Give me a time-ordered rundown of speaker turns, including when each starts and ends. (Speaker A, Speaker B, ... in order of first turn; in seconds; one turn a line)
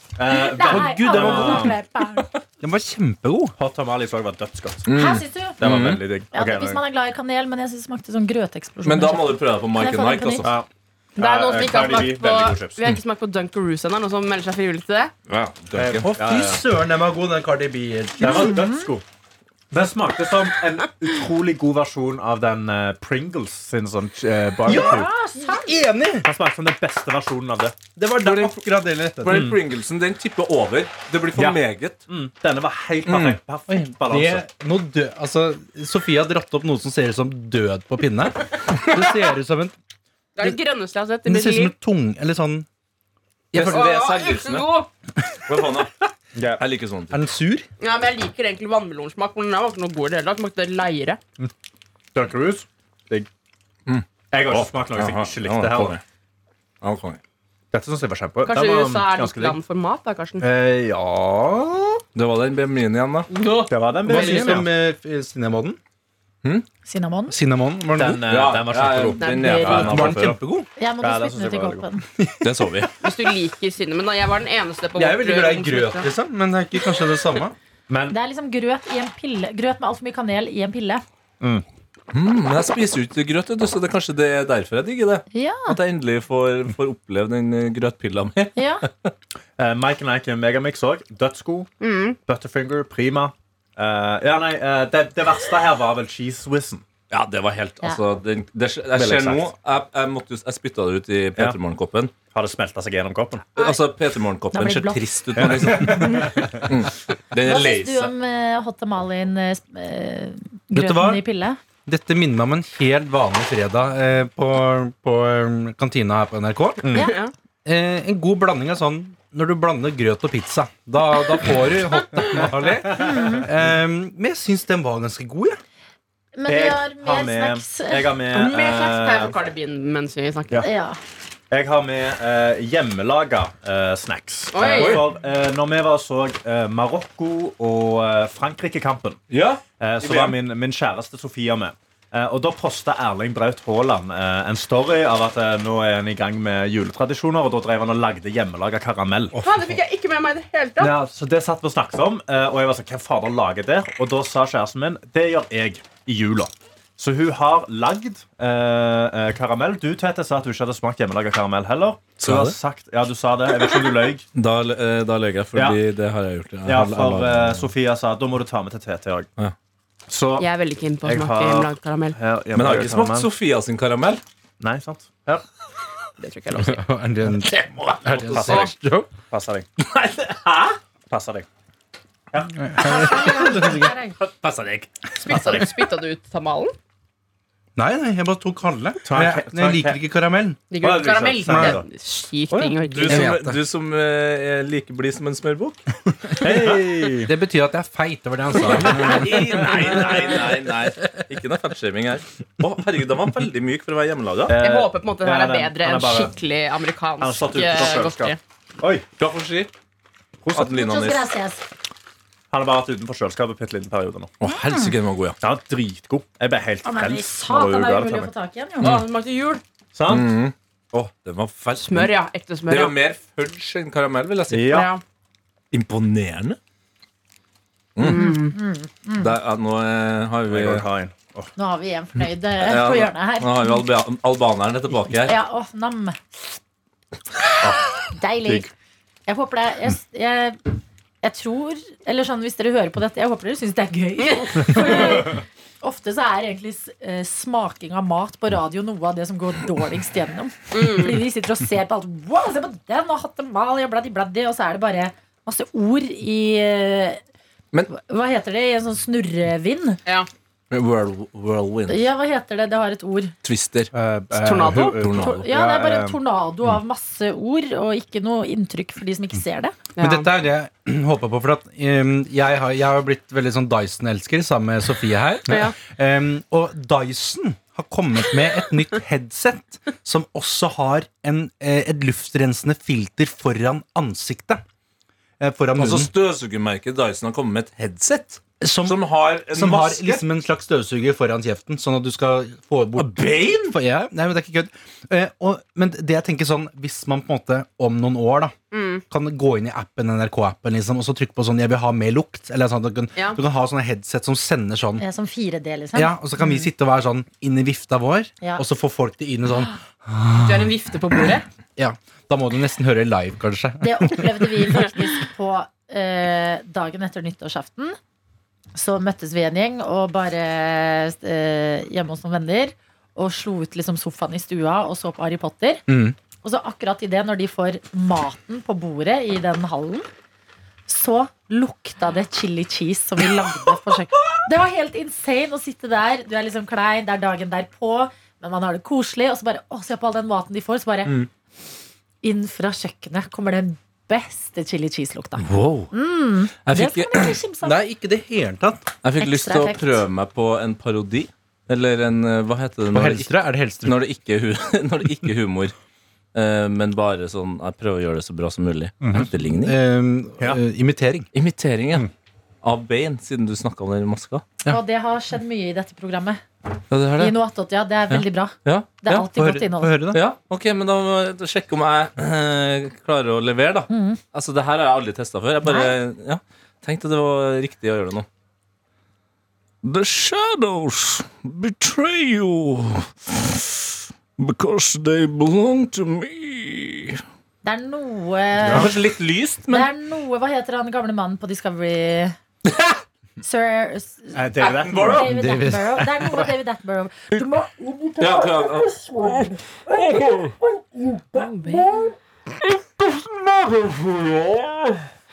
Speaker A: 0.2-1.8
Speaker B: 0.3-2.3
Speaker C: 0.7-1.7
Speaker C: 2.6-3.5
Speaker A: 3.6-4.9
Speaker D: 4.9-6.0
Speaker B: 4.9-5.6
Speaker A: 5.6-6.8
Speaker B: 6.3-10.5
Speaker D: 8.8-10.5
Speaker A: 10.4-12.8
Speaker E: 11.2-15.1
Speaker D: 15.3-16.1
Speaker A: 15.7-16.6
Speaker C: 16.0-18.7
Speaker A: 18.2-19.0
Speaker B: 18.2-18.9
Speaker A: 19.7-25.1
Speaker B: 24.6-25.8
Speaker C: 24.6-26.3
Speaker A: 26.2-27.8
Speaker C: 27.9-29.5
Speaker D: 28.2-28.6
Speaker A: 29.2-29.6
Speaker D: 29.2-32.0
Speaker A: 31.3-34.4
Speaker D: 33.0-33.4
Speaker C: 33.7-39.7
Speaker E: 40.4-41.7
Speaker C: 41.2-42.7
Speaker C: 43.5-43.8
Speaker D: 43.5-44.7
Speaker E: 43.5-44.9
Speaker D: 45.5-46.0
Speaker A: 46.3-46.6
Speaker D: 46.6-47.1
Speaker C: 47.1-47.7
Speaker E: 47.8-51.2
Speaker A: 52.1-53.3
Speaker D: 53.9-56.0
Speaker A: 54.3-56.0
Speaker D: 56.8-57.2
Speaker A: 57.7-59.6
Speaker E: 58.4-60.5
Speaker A: 60.4-62.0
Speaker D: 62.1-63.3
Speaker E: 63.3-64.6
Speaker A: 63.7-64.7
Speaker C: 64.0-65.8
Speaker B: 66.8-67.4
Speaker C: 67.3-68.2
Speaker A: 67.9-70.4
Speaker D: 68.3-70.2
Speaker E: 69.2-69.9
Speaker C: 69.7-70.7
Speaker B: 70.8-72.0
Speaker A: 71.0-71.8
Speaker C: 72.2-72.5
Speaker D: 72.4-72.9
Speaker E: 73.0-76.1
Speaker C: 75.0-77.5
Speaker A: 77.9-78.2
Speaker B: 78.1-81.0
Speaker D: 82.1-89.1
Speaker B: 85.3-85.8
Speaker B: 88.5-88.8
Speaker A: 89.6-96.8
Speaker E: 91.8-92.2
Speaker D: 97.1-102.1
Speaker A: 98.9-99.5
Speaker A: 102.3-103.5
Speaker D: 103.5-108.1
Speaker B: 104.5-105.1
Speaker A: 105.4-106.5
Speaker B: 107.4-111.6
Speaker C: 110.7-111.2
Speaker C: 111.8-117.0
Speaker A: 116.8-117.1
Speaker E: 116.9-117.3
Speaker C: 117.6-125.6
Speaker B: 123.0-123.4
Speaker B: 126.3-128.1
Speaker A: 126.5-129.3
Speaker E: 128.3-130.7
Speaker B: 130.6-131.0
Speaker A: 131.5-139.2
Speaker E: 134.5-135.0
Speaker D: 134.7-135.1
Speaker D: 139.3-140.4
Speaker A: 139.8-149.4
Speaker E: 149.4-151.0
Speaker A: 150.8-164.2
Speaker D: 162.2-162.6
Speaker D: 164.3-167.7
Speaker A: 165.5-165.8
Speaker A: 166.6-169.3
Speaker A: 170.1-170.5
Speaker E: 170.4-172.2
Speaker A: 171.0-173.3
Speaker D: 172.5-174.2
Speaker A: 174.6-175.4
Speaker E: 176.2-176.8
Speaker C: 176.6-179.1
Speaker D: 177.4-178.7
Speaker A: 178.3-179.7
Speaker D: 179.8-180.8
Speaker A: 181.1-181.4
Speaker A: 182.3-183.7
Speaker C: 182.6-183.9
Speaker B: 182.8-184.2
Speaker D: 184.2-184.9
Speaker E: 185.2-186.7
Speaker C: 187.8-190.6
Speaker A: 189.0-190.0
Speaker E: 190.7-193.3
Speaker A: 190.7-191.8
Speaker C: 191.4-191.8
Speaker D: 192.5-195.8
Speaker C: 193.1-193.6
Speaker A: 196.4-197.3
Speaker C: 196.4-199.4
Speaker D: 198.6-204.6
Speaker A: 204.5-206.3
Speaker E: 204.6-208.4
Speaker A: 207.2-209.0
Speaker D: 209.2-209.7
Speaker D: 210.5-211.3
Speaker B: 210.6-211.7
Speaker A: 212.5-214.3
Speaker D: 214.4-215.4
Speaker B: 214.5-214.9
Speaker A: 215.4-218.3
Speaker B: 216.8-219.0
Speaker E: 218.8-219.6
Speaker A: 219.9-220.3
Speaker D: 220.1-222.1
Speaker E: 221.8-222.9
Speaker D: 222.7-224.8
Speaker A: 224.5-224.9
Speaker E: 224.7-225.0
Speaker D: 225.7-226.6
Speaker D: 227.9-228.4
Speaker E: 228.0-228.6
Speaker B: 228.0-229.3
Speaker D: 229.2-230.8
Speaker A: 230.5-231.5
Speaker B: 231.6-233.8
Speaker D: 232.6-235.4
Speaker B: 235.2-236.4
Speaker B: 238.0-238.7
Speaker B: 239.3-240.6
Speaker B: 241.2-257.2
Speaker E: 244.2-245.1
Speaker E: 250.7-251.2
Speaker B: 257.9-260.0
Speaker D: 260.7-262.1
Speaker B: 261.9-263.3
Speaker D: 263.4-263.9
Speaker A: 263.9-266.2
Speaker E: 264.3-265.1
Speaker D: 264.6-265.5
Speaker B: 265.2-269.8
Speaker E: 269.9-270.3
Speaker C: 270.0-284.6
Speaker E: 275.5-275.8
Speaker C: 285.4-286.1
Speaker D: 285.8-290.2
Speaker C: 288.6-298.5
Speaker D: 293.0-293.7
Speaker E: 298.7-299.0
Speaker C: 299.1-305.0
Speaker B: 305.0-306.2
Speaker C: 305.9-310.7
Speaker E: 310.4-311.4
Speaker C: 311.8-314.9
Speaker B: 313.8-318.0
Speaker B: 318.7-325.8
Speaker C: 325.9-326.1
Speaker B: 326.4-330.1
Speaker B: 330.9-341.2
Speaker B: 342.2-347.8
Speaker D: 345.4-345.9
Speaker D: 346.6-347.4
Speaker C: 347.6-348.9
Speaker D: 349.0-353.3
Speaker B: 349.2-350.0
Speaker C: 352.9-354.0
Speaker D: 353.8-355.7
Speaker D: 356.3-359.8
Speaker C: 359.1-361.3
Speaker D: 361.3-362.1
Speaker D: 362.6-364.4
Speaker B: 364.7-366.4
Speaker D: 366.9-367.4
Speaker B: 367.2-370.0
Speaker D: 368.1-369.3
Speaker C: 369.2-370.2
Speaker D: 370.1-378.2
Speaker B: 373.9-374.2
Speaker B: 375.6-375.9
Speaker D: 379.8-383.9
Speaker D: 384.4-387.2
Speaker B: 387.6-388.9
Speaker D: 388.6-389.9
Speaker B: 389.7-392.4
Speaker D: 392.6-393.0
Speaker B: 393.4-398.6
Speaker A: 394.3-395.3
Speaker D: 394.6-395.3
Speaker C: 395.2-396.2
Speaker D: 398.2-400.6
Speaker B: 401.3-402.0
Speaker E: 401.4-401.7
Speaker D: 401.7-402.0
Speaker D: 402.6-405.1